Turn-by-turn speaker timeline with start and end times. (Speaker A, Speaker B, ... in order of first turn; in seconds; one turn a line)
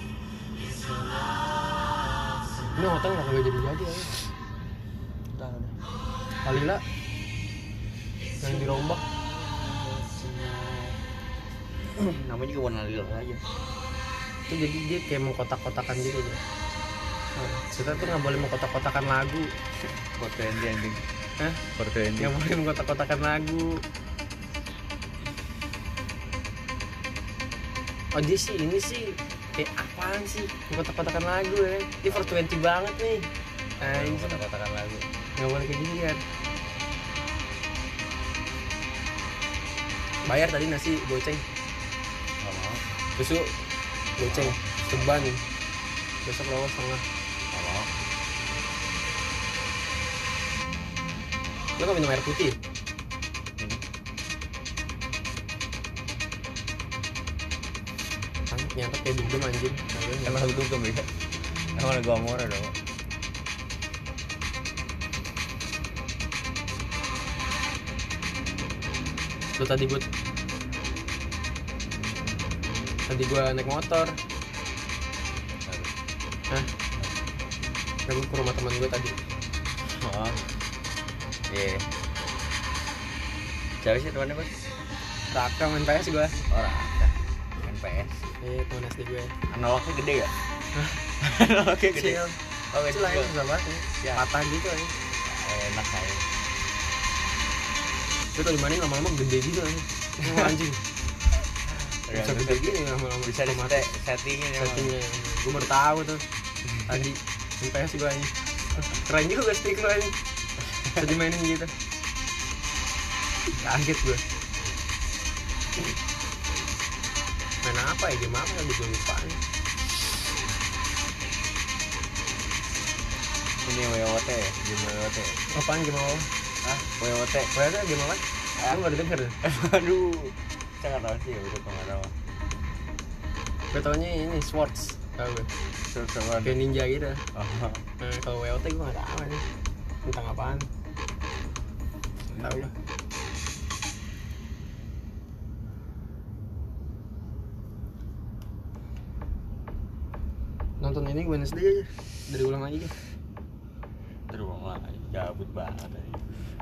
Speaker A: 0.6-3.0
Speaker B: 2.8-4.2
Speaker A: 5.3-5.8
Speaker B: 6.5-6.8
Speaker B: 8.4-9.0
Speaker A: 8.5-11.0
Speaker A: 11.9-13.4
Speaker B: 14.5-16.4
Speaker B: 17.4-19.5
Speaker A: 20.2-21.0
Speaker A: 21.7-22.4
Speaker B: 22.2-23.8
Speaker B: 28.1-33.3
Speaker A: 32.0-32.5
Speaker A: 33.8-35.1
Speaker B: 33.8-34.4
Speaker B: 35.4-36.2
Speaker B: 40.3-41.4
Speaker A: 42.4-42.8
Speaker B: 43.2-43.5
Speaker B: 44.2-45.4
Speaker A: 44.2-45.3
Speaker B: 46.2-47.0
Speaker A: 47.5-47.9
Speaker B: 51.8-52.6
Speaker A: 53.6-53.8
Speaker B: 58.5-60.5
Speaker A: 60.2-61.1
Speaker A: 61.8-62.8
Speaker B: 69.6-70.0
Speaker B: 73.1-74.2
Speaker A: 75.6-75.9
Speaker B: 78.1-79.2
Speaker A: 79.9-80.4
Speaker A: 81.5-81.9
Speaker A: 83.8-84.7
Speaker B: 85.3-86.4
Speaker A: 86.5-88.2
Speaker B: 88.4-89.3
Speaker A: 89.5-90.3
Speaker B: 90.8-91.0
Speaker A: 91.2-93.3
Speaker B: 91.9-92.4
Speaker B: 92.9-94.9
Speaker A: 95.2-96.3
Speaker B: 98.3-100.8
Speaker A: 100.2-100.6
Speaker A: 101.7-104.9
Speaker B: 102.1-103.9
Speaker B: 104.6-106.2
Speaker B: 106.8-110.1
Speaker B: 110.9-111.7
Speaker B: 113.6-114.2
Speaker B: 117.6-119.4
Speaker A: 123.6-125.4
Speaker B: 125.5-126.3
Speaker A: 126.6-127.5
Speaker B: 127.5-129.4
Speaker A: 129.4-132.2
Speaker B: 133.7-135.5
Speaker A: 135.9-136.6
Speaker B: 136.4-137.2
Speaker A: 137.3-137.8
Speaker B: 138.0-139.4
Speaker B: 140.1-140.7
Speaker A: 142.3-142.7
Speaker B: 142.3-142.7
Speaker B: 150.8-152.9
Speaker A: 154.3-156.2